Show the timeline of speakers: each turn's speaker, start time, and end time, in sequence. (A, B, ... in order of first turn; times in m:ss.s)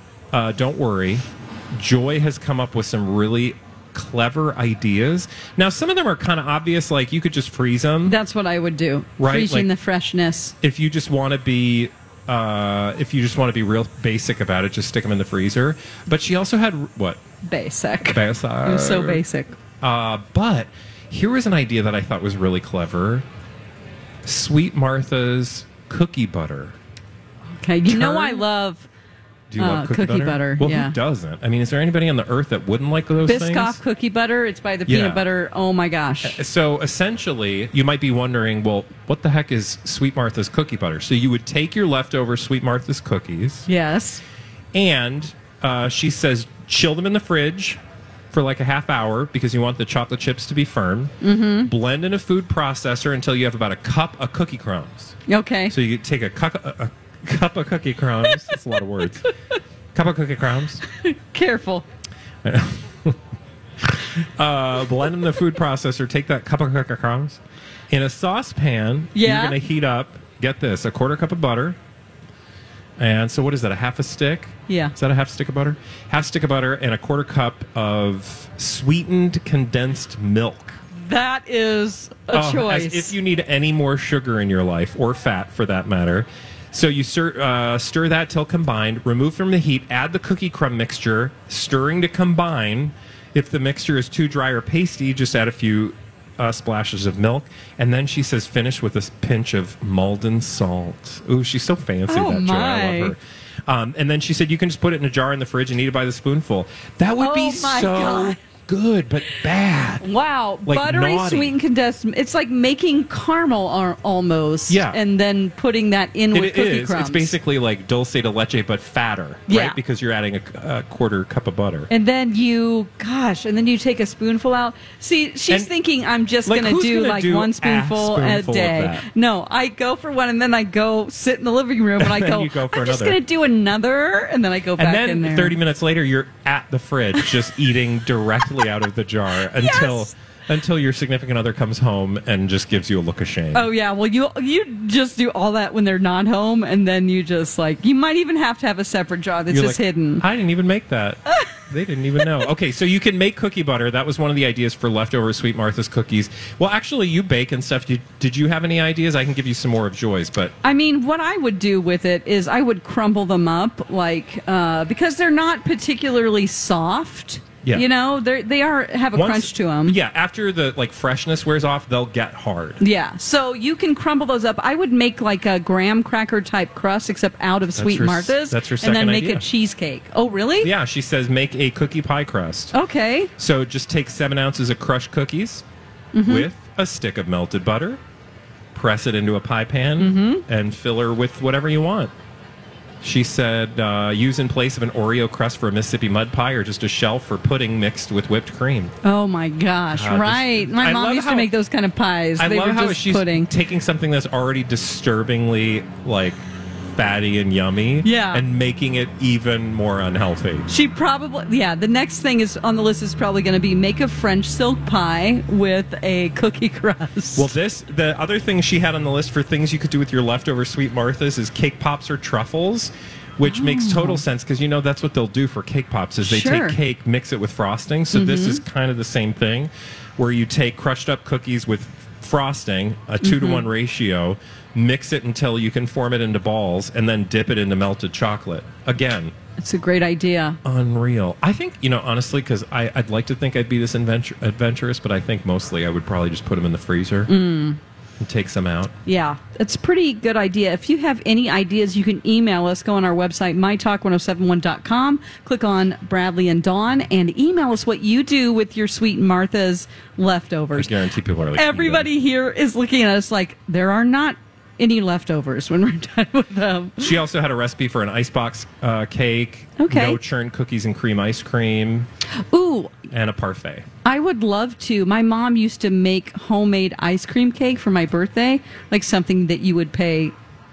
0:00.3-0:08.2 A
0:08.1-0:10.6 B
0:09.2-0:09.7 A
0:10.6-0:17.2 A
0:17.4-0:19.6 B
0:18.0-0:19.2 A
0:19.8-0:23.3 A
0:24.2-0:26.8 A
0:27.6-0:28.9 B
0:27.9-0:28.5 A
0:29.5-0:33.8 A
0:29.6-0:31.0 B
0:33.2-0:36.4 B
0:34.9-0:35.2 A
0:36.2-0:43.7 A
0:43.7-0:44.2 B
0:44.7-0:47.8 A
0:48.3-0:55.2 A
0:51.2-0:51.7 B
0:55.3-0:55.7 B
0:55.7-0:59.3 A
0:59.9-1:00.8 A
1:00.9-1:01.8 B
1:02.4-1:03.2 A
1:03.8-1:11.8 A
1:09.2-1:09.6 B
1:13.0-1:20.8 A
1:14.7-1:14.9 B
1:20.9-1:23.1 B
1:22.3-1:50.1 A
1:42.1-1:43.2 B
1:47.2-1:48.4 B
1:50.0-1:57.3 B
1:50.7-1:51.6 A
1:54.7-1:55.0 A
1:56.3-2:01.9 A
1:59.5-1:59.8 B
2:01.9-2:15.6 B
2:06.4-2:09.1 A
2:12.0-2:13.2 A
2:14.8-2:23.7 A
2:19.5-2:20.1 B
2:23.5-2:30.2 B
2:29.5-2:40.5 A
2:40.6-2:50.0 B
2:49.1-2:52.8 A
2:52.8-3:00.7 B
2:57.8-2:59.5 A
3:00.6-3:02.7 A
3:02.7-3:03.3 B
3:03.4-3:05.6 A
3:06.1-3:06.5 B
3:06.3-3:08.0 A
3:08.7-3:12.1 A
3:10.0-3:10.4 B
3:13.0-3:18.9 A
3:19.0-3:23.5 B
3:19.9-3:21.5 A
3:22.4-3:30.7 A
3:28.0-3:28.4 B
3:30.7-3:37.5 B
3:37.4-3:59.4 A
3:43.5-3:44.2 B
3:46.2-3:46.8 B
3:48.1-3:48.6 B
3:53.2-3:53.7 B
3:59.6-4:00.6 B
4:00.6-4:07.3 A
4:07.3-4:07.8 B
4:08.2-4:08.9 A
4:09.1-4:20.9 B
4:20.7-4:22.1 A
4:21.5-4:27.1 B
4:27.0-4:32.1 A
4:29.8-4:30.2 B
4:32.5-4:32.9 B
4:33.1-4:33.9 A
4:34.0-4:40.3 B